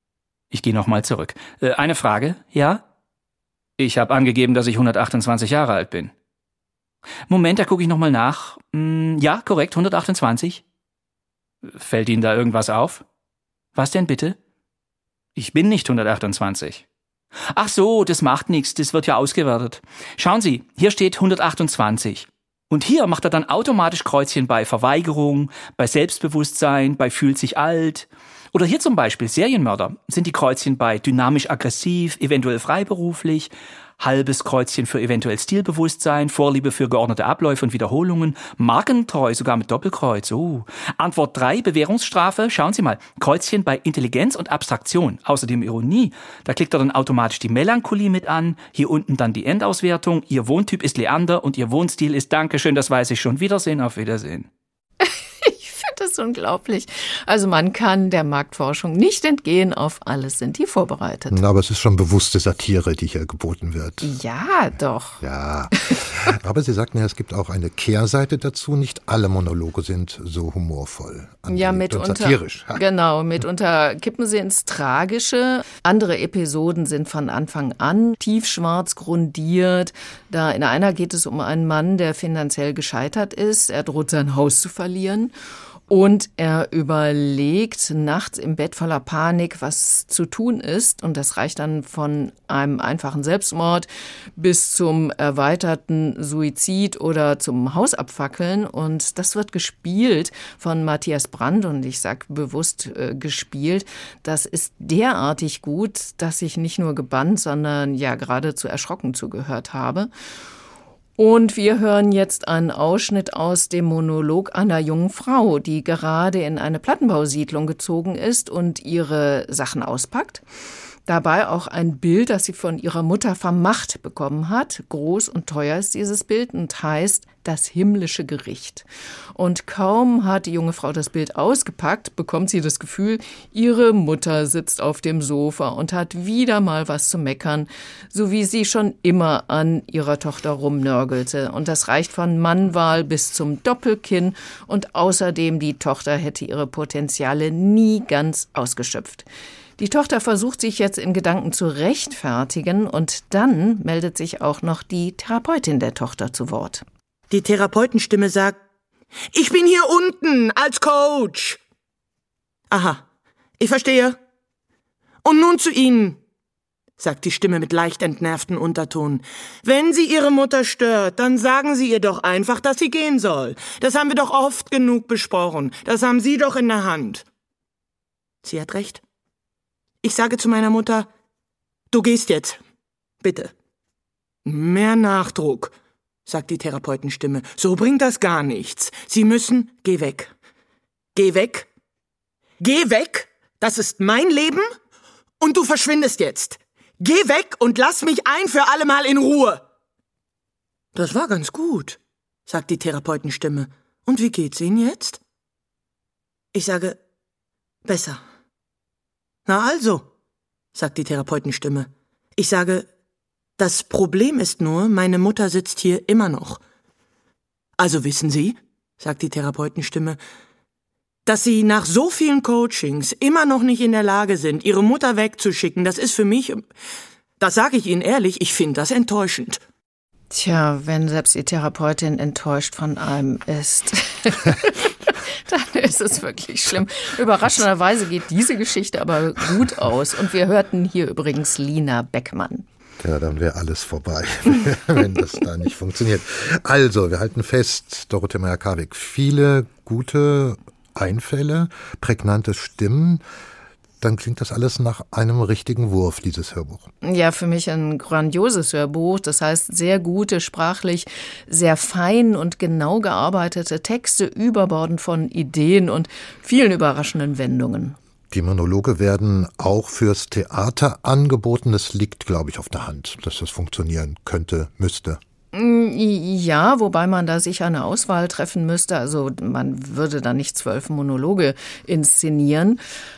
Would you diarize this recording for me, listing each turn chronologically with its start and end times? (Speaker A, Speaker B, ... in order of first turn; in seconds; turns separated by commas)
Speaker A: 0.5-2.8, Speaker A: 3.8-6.1, Speaker A: 7.3-10.6, Speaker A: 11.7-13.1, Speaker A: 13.8-14.4, Speaker A: 15.4-16.8, Speaker A: 17.5-54.5, Speaker B: 55.0-61.4, Speaker C: 61.3-64.1, Speaker B: 64.0-65.2, Speaker C: 65.2-72.8, Speaker B: 71.5-85.3, Speaker B: 85.9-110.1, Speaker B: 111.2-120.4, Speaker B: 121.1-149.3, Speaker B: 149.8-156.8, Speaker D: 157.3-158.6, Speaker D: 159.3-161.6, Speaker D: 162.7-163.0, Speaker D: 163.6-164.2, Speaker D: 165.2-166.2, Speaker D: 167.0-177.3, Speaker D: 178.4-179.0, Speaker D: 180.0-181.1, Speaker D: 181.9-182.6, Speaker D: 183.2-183.5, Speaker D: 184.4-185.7, Speaker D: 186.3-190.3, Speaker D: 191.2-191.7, Speaker D: 192.6-194.7, Speaker D: 195.4-199.6, Speaker D: 200.9-205.2, Speaker D: 206.5-207.0, Speaker D: 207.8-208.2, Speaker D: 209.5-210.1, Speaker D: 210.7-212.9, Speaker D: 213.6-216.6, Speaker D: 217.8-220.2, Speaker D: 221.3-226.7, Speaker D: 227.4-229.6, Speaker B: 230.3-242.7, Speaker C: 243.0-253.2, Speaker C: 254.0-256.9, Speaker B: 257.0-268.0, Speaker C: 268.3-275.2, Speaker B: 275.5-282.8